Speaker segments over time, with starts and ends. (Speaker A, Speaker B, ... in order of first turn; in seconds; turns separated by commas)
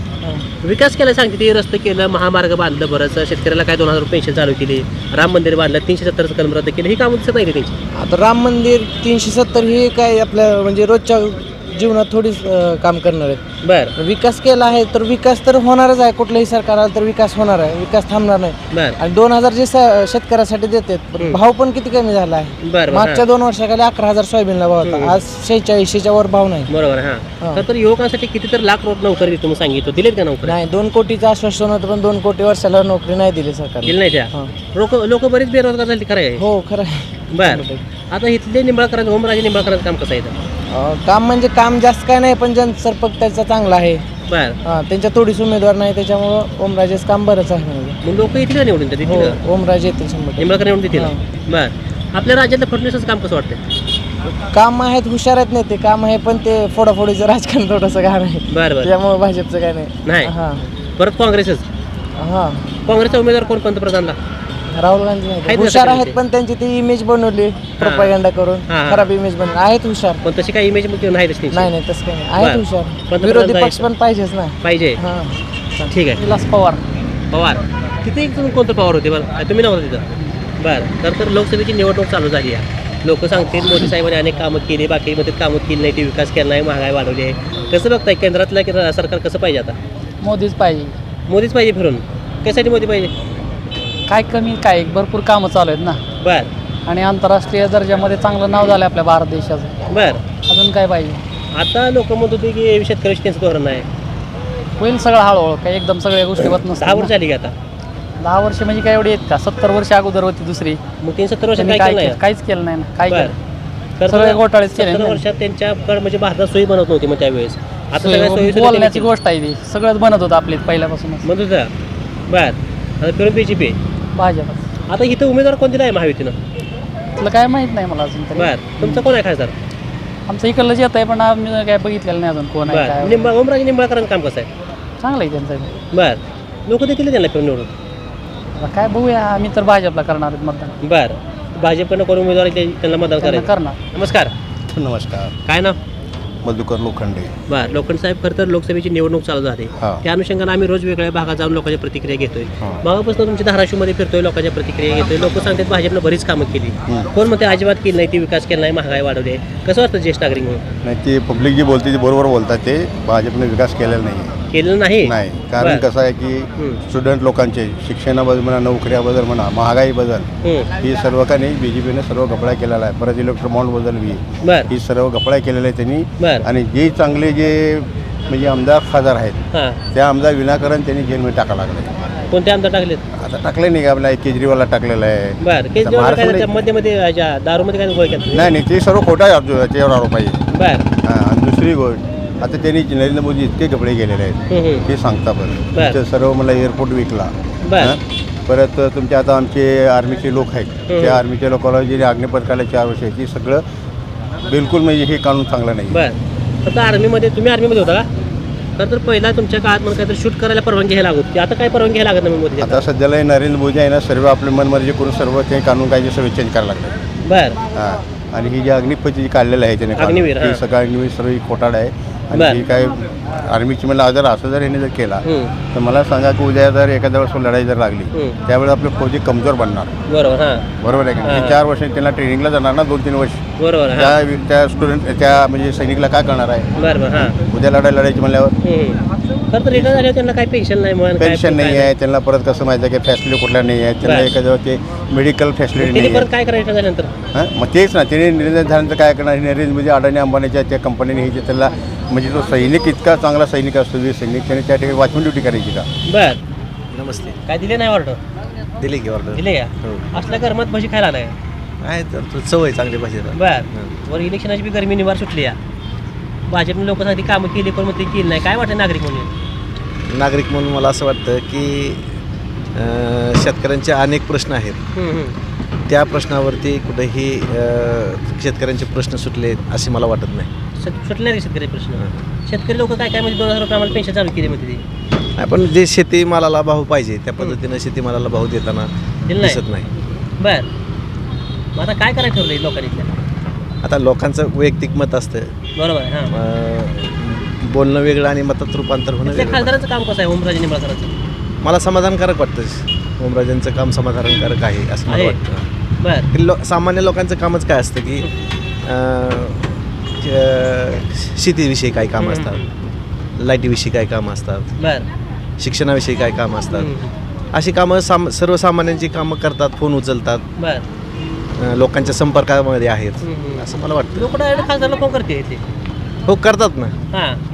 Speaker A: 0.6-7.8, Speaker B: 7.9-13.4, Speaker A: 13.6-13.9, Speaker B: 14.0-26.7, Speaker A: 18.7-19.0, Speaker A: 22.6-23.2, Speaker A: 24.8-25.1, Speaker A: 26.7-30.6, Speaker B: 30.4-34.5, Speaker A: 33.8-36.4, Speaker B: 36.4-37.8, Speaker A: 37.3-40.3, Speaker B: 40.7-44.0, Speaker A: 44.3-44.6, Speaker B: 44.6-48.0, Speaker A: 48.0-49.4, Speaker B: 49.0-51.2, Speaker A: 50.4-53.6, Speaker B: 54.5-60.6, Speaker A: 58.5-58.9, Speaker A: 60.0-60.3, Speaker A: 61.0-61.6, Speaker B: 62.2-62.8, Speaker A: 62.9-64.2, Speaker B: 64.7-70.2, Speaker A: 65.4-66.2, Speaker A: 67.8-68.1, Speaker A: 68.7-69.1, Speaker A: 70.2-71.7, Speaker B: 71.5-75.9, Speaker A: 72.4-73.9, Speaker A: 74.6-75.0, Speaker A: 75.9-76.2, Speaker C: 76.2-76.8, Speaker A: 77.3-80.0, Speaker A: 80.6-89.8, Speaker C: 90.2-90.9, Speaker A: 91.3-93.1, Speaker C: 94.1-96.0, Speaker A: 96.2-96.5, Speaker C: 96.8-99.7, Speaker A: 99.9-100.2, Speaker C: 100.5-101.2, Speaker A: 101.5-103.8, Speaker C: 104.8-107.1, Speaker A: 106.8-107.5, Speaker C: 108.2-110.8, Speaker A: 111.0-112.2, Speaker C: 111.5-113.3, Speaker A: 113.1-113.3, Speaker A: 114.0-119.1, Speaker C: 114.1-115.2, Speaker C: 118.0-121.2, Speaker A: 121.2-121.7, Speaker A: 122.3-123.8, Speaker C: 124.1-124.6, Speaker A: 124.9-126.4, Speaker C: 127.2-129.0, Speaker A: 128.3-129.5, Speaker C: 130.3-133.3, Speaker A: 132.7-134.5, Speaker C: 135.0-135.7, Speaker A: 135.9-137.7, Speaker C: 138.6-140.7, Speaker A: 140.8-144.3, Speaker C: 143.2-143.8, Speaker D: 144.7-145.3, Speaker A: 145.5-145.8, Speaker D: 146.4-147.3, Speaker A: 147.5-160.6, Speaker D: 149.8-150.0, Speaker D: 160.8-164.3, Speaker A: 164.5-165.8, Speaker D: 165.0-179.4, Speaker A: 174.4-174.7, Speaker A: 176.2-176.4, Speaker A: 179.5-179.8, Speaker D: 179.9-182.1, Speaker A: 182.3-183.0, Speaker D: 183.2-186.5, Speaker A: 185.4-188.4, Speaker D: 188.3-190.4, Speaker A: 190.5-190.8, Speaker D: 191.0-203.6, Speaker A: 194.5-194.8, Speaker A: 197.6-197.9, Speaker A: 200.9-201.2, Speaker D: 204.5-206.0, Speaker A: 205.9-208.1, Speaker A: 208.8-212.8, Speaker D: 212.6-217.0, Speaker A: 217.3-217.6, Speaker D: 217.7-229.9, Speaker A: 220.0-220.6, Speaker A: 222.3-222.6, Speaker A: 225.2-225.5, Speaker A: 230.1-230.6, Speaker D: 230.8-233.4, Speaker A: 231.2-231.6, Speaker A: 233.6-234.1, Speaker D: 233.9-238.5, Speaker A: 236.8-237.3, Speaker A: 238.6-239.0, Speaker A: 239.5-241.9, Speaker D: 239.7-240.0, Speaker D: 241.2-246.3, Speaker A: 244.0-244.3, Speaker A: 245.8-247.1, Speaker D: 247.3-255.9, Speaker A: 256.1-256.4, Speaker E: 256.9-257.4, Speaker A: 257.5-258.2, Speaker E: 258.8-260.1, Speaker A: 259.3-261.3, Speaker E: 261.8-263.9, Speaker A: 263.3-265.6, Speaker A: 266.5-269.3, Speaker E: 270.1-272.1, Speaker E: 272.7-274.8, Speaker A: 274.9-275.3, Speaker E: 275.9-280.5, Speaker A: 280.8-284.8, Speaker E: 285.4-289.9, Speaker A: 289.3-289.6, Speaker A: 290.4-290.7, Speaker A: 291.8-293.1, Speaker E: 293.8-295.5, Speaker A: 295.8-296.3, Speaker E: 296.3-299.7, Speaker A: 299.2-301.1, Speaker E: 301.6-305.6, Speaker A: 305.1-305.4, Speaker A: 306.0-306.3, Speaker E: 306.3-308.3, Speaker E: 308.9-312.7, Speaker A: 312.2-312.7, Speaker E: 313.4-314.6, Speaker A: 314.8-315.0, Speaker E: 315.6-316.9, Speaker A: 316.7-317.1, Speaker E: 317.5-320.4, Speaker A: 320.6-320.8, Speaker E: 321.6-324.3, Speaker A: 323.2-325.6, Speaker E: 326.3-326.9, Speaker A: 327.1-327.4